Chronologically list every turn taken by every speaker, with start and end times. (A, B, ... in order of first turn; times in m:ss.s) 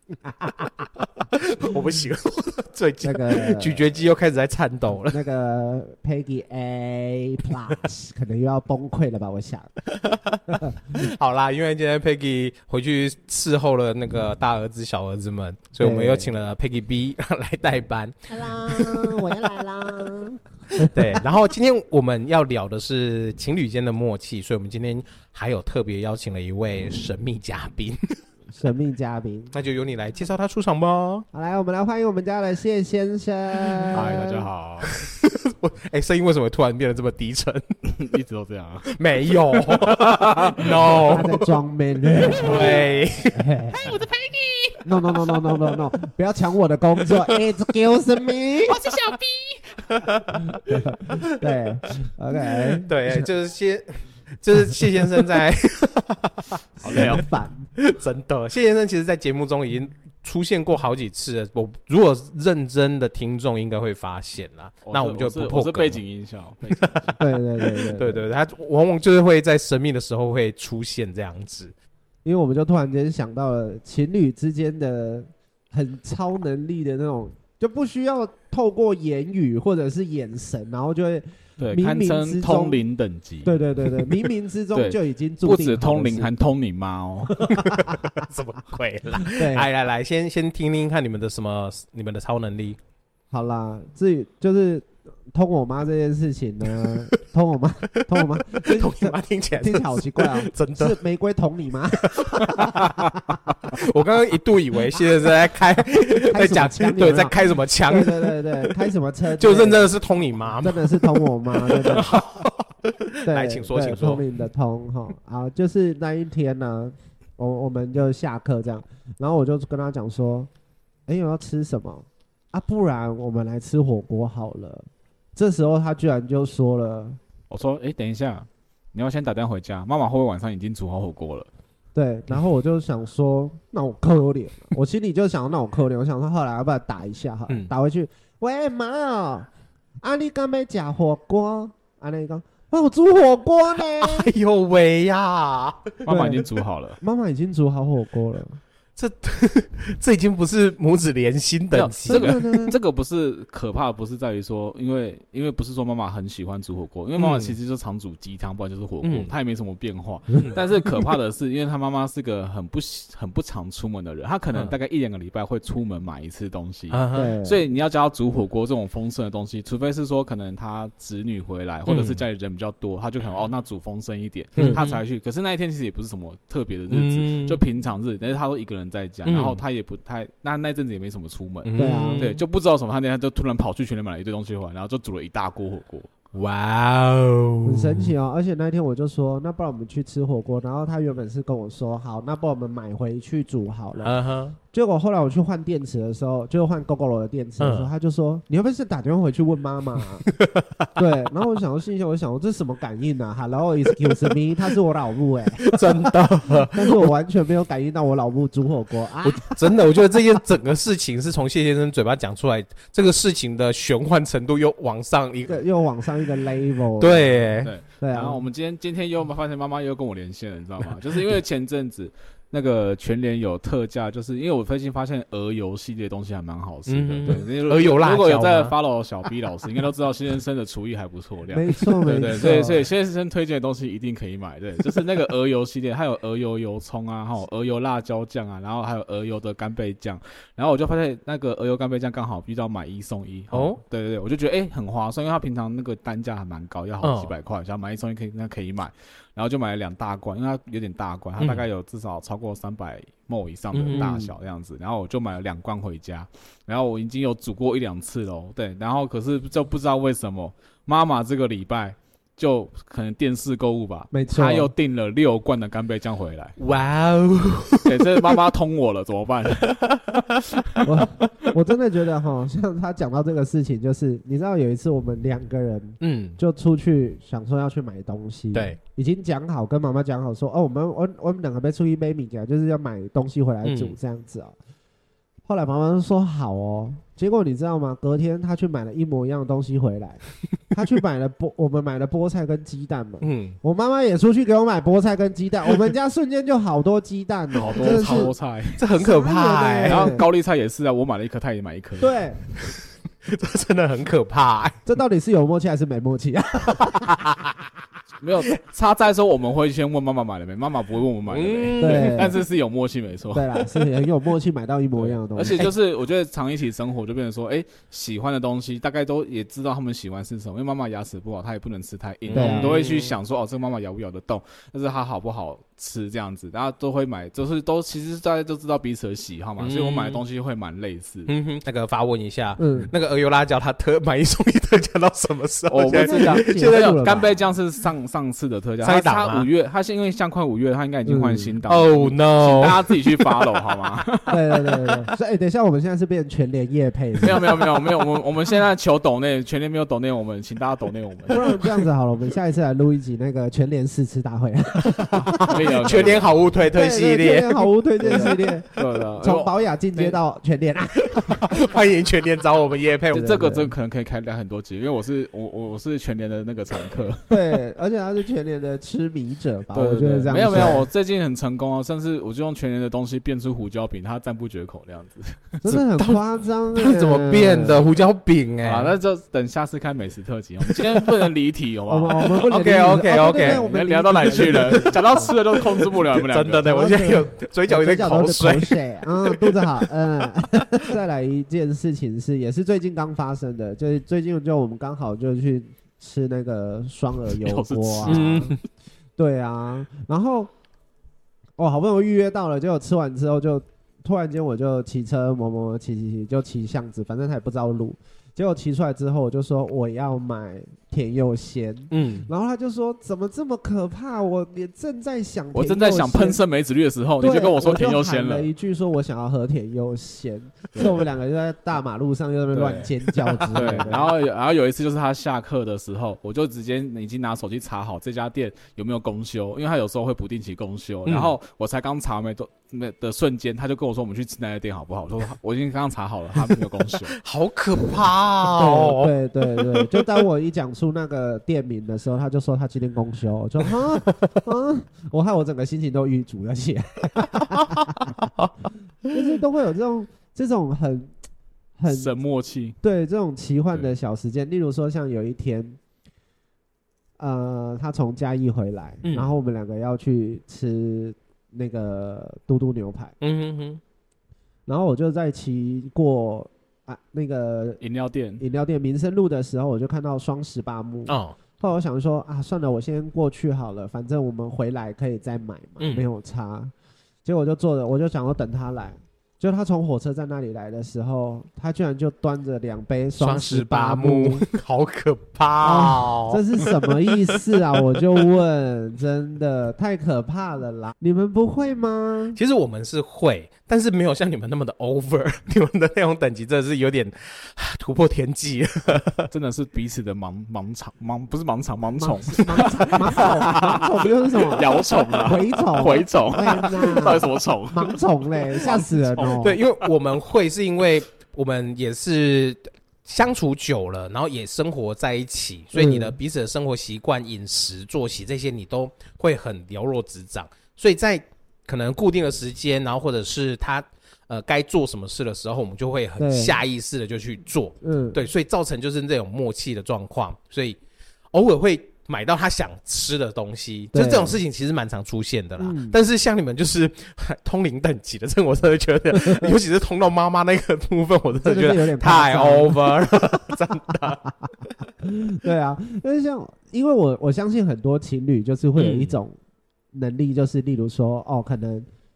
0:00.4-0:05.2 A
0:03.0-0:03.9 B
0:05.1-0:09.7 B
0:09.9-0:19.5 A
0:15.8-0:16.3 B
0:18.3-0:20.9 B
0:20.8-0:28.2 A
0:28.5-0:29.5 B
0:29.5-0:31.3 A
0:31.3-0:34.5 B
0:33.7-0:34.2 A
0:33.9-0:34.9 C
0:34.9-0:37.6 A
0:37.9-0:41.1 C
0:38.9-0:41.4 A
0:41.1-0:44.0 B
0:42.3-0:45.4 A
0:44.8-0:49.0 B
0:47.0-0:47.4 A
0:48.6-0:50.6 A
0:50.6-0:53.3 B
0:52.8-0:57.2 A
0:56.8-0:57.7 B
0:56.8-0:57.3 C
0:57.8-1:06.0 A
1:04.8-1:07.2 C
1:07.2-1:08.3 B
1:07.6-1:11.7 A
1:12.2-1:22.8 B
1:21.6-1:27.4 C
1:23.4-1:26.3 B
1:27.4-1:32.8 A
1:29.3-1:29.7 B
1:33.3-1:43.1 B
1:38.1-1:41.0 A
1:41.9-1:43.0 A
1:43.6-1:48.7 A
1:46.3-1:49.9 B
1:49.3-1:54.2 A
1:50.6-1:52.2 B
1:53.2-2:00.5 B
2:01.1-2:07.2 B
2:07.5-2:11.5 C
2:12.0-2:19.5 B
2:20.0-2:24.3 B
2:23.8-2:25.9 A
2:26.0-2:27.0 C
2:26.1-2:26.5 B
2:27.0-2:28.6 B
2:29.0-2:32.4 A
2:31.7-3:06.1 C
2:32.1-2:32.8 B
2:37.2-2:37.6 A
2:39.0-2:39.3 A
2:46.9-2:47.3 A
2:47.1-2:47.6 B
2:51.9-2:52.2 A
2:54.6-2:55.0 A
2:56.9-2:57.6 A
2:59.2-2:59.6 A
3:01.6-3:02.4 A
3:01.8-3:02.3 B
3:06.3-3:08.1 A
3:07.6-3:14.2 B
3:14.0-3:14.6 A
3:14.7-3:20.3 B
3:17.6-3:17.9 A
3:20.3-3:20.9 A
3:21.0-3:25.8 B
3:25.6-3:27.1 A
3:26.7-3:29.6 B
3:29.2-3:35.6 A
3:35.5-3:37.4 B
3:37.0-3:37.7 A
3:37.6-4:26.6 C
3:38.0-3:38.4 B
3:46.9-3:48.8 A
3:51.5-3:52.9 B
4:03.5-4:03.8 A
4:07.0-4:07.4 A
4:11.4-4:11.7 A
4:13.7-4:14.2 A
4:13.9-4:14.3 B
4:24.1-4:24.7 B
4:26.6-4:28.2 A
4:27.8-4:30.2 C
4:29.8-4:30.8 A
4:30.8-4:44.6 B
4:36.0-4:36.4 A
4:38.5-4:38.8 A
4:43.6-4:44.0 A
4:45.5-4:58.3 B
4:53.2-4:53.6 A
4:57.6-4:58.8 C
4:57.7-5:00.1 A
4:59.0-5:00.3 B
4:59.9-5:02.2 C
5:02.0-5:02.4 B
5:03.3-5:04.8 A
5:04.9-5:07.0 B
5:06.8-5:07.6 A
5:08.2-5:13.7 C
5:11.3-5:12.3 A
5:11.8-5:12.4 B
5:13.3-5:15.7 B
5:15.0-5:31.3 C
5:22.3-5:23.2 A
5:22.3-5:22.7 B
5:29.6-5:30.2 A
5:31.3-5:37.4 A
5:32.6-5:32.9 B
5:35.7-5:45.0 C
5:35.9-5:37.3 B
5:38.8-5:39.5 A
5:41.1-5:41.6 B
5:41.6-5:43.6 A
5:44.3-5:47.7 B
5:47.2-5:51.8 C
5:51.3-5:55.6 B
5:54.9-5:58.9 A
5:55.4-5:56.3 C
5:56.7-5:58.7 B
5:58.0-5:59.5 C
5:59.2-6:01.5 B
6:01.2-6:03.3 A
6:03.1-6:07.4 C
6:03.1-6:03.7 B
6:07.3-6:10.9 B
6:09.7-6:15.6 C
6:15.6-6:17.9 B
6:15.7-6:16.2 A
6:16.8-6:18.9 A
6:18.6-6:22.5 C
6:20.7-6:21.1 A
6:21.9-6:25.3 B
6:22.5-6:23.7 A
6:23.2-6:26.7 C
6:24.3-6:29.4 A
6:26.7-6:38.6 B
6:37.3-6:38.6 C
6:38.1-6:38.6 A
6:39.2-6:40.5 B
6:41.6-6:56.4 B
6:51.9-6:52.3 A
6:55.5-6:58.5 C
6:57.2-7:04.1 B
7:02.5-7:17.2 C
7:11.1-7:11.3 A
7:17.2-7:20.2 A
7:18.6-7:28.0 B
7:27.5-7:28.5 A
7:29.1-7:31.1 B
7:31.8-7:32.1 B
7:31.9-7:32.8 C
7:32.8-7:35.8 B
7:37.2-7:43.2 B
7:39.0-7:39.4 A
7:43.2-7:43.8 A
7:44.7-7:47.8 B
7:47.8-7:48.4 C
7:48.4-7:56.7 B
7:51.1-7:51.4 A
7:55.8-7:56.1 A
7:57.2-8:04.4 B
8:03.2-8:07.4 A
8:05.6-8:12.4 B
8:12.4-8:19.3 A
8:19.3-8:29.6 C
8:22.0-8:29.6 B
8:24.8-8:25.2 A
8:29.4-8:50.8 A
8:35.7-8:36.2 B
8:46.2-8:46.6 B
8:47.8-8:48.2 B
8:51.3-9:04.2 A
8:53.9-8:54.4 B
8:55.6-8:56.0 B
8:59.1-8:59.5 B
9:01.4-9:02.8 B
9:05.0-9:09.4 B
9:08.8-9:09.2 A
9:09.9-9:11.9 B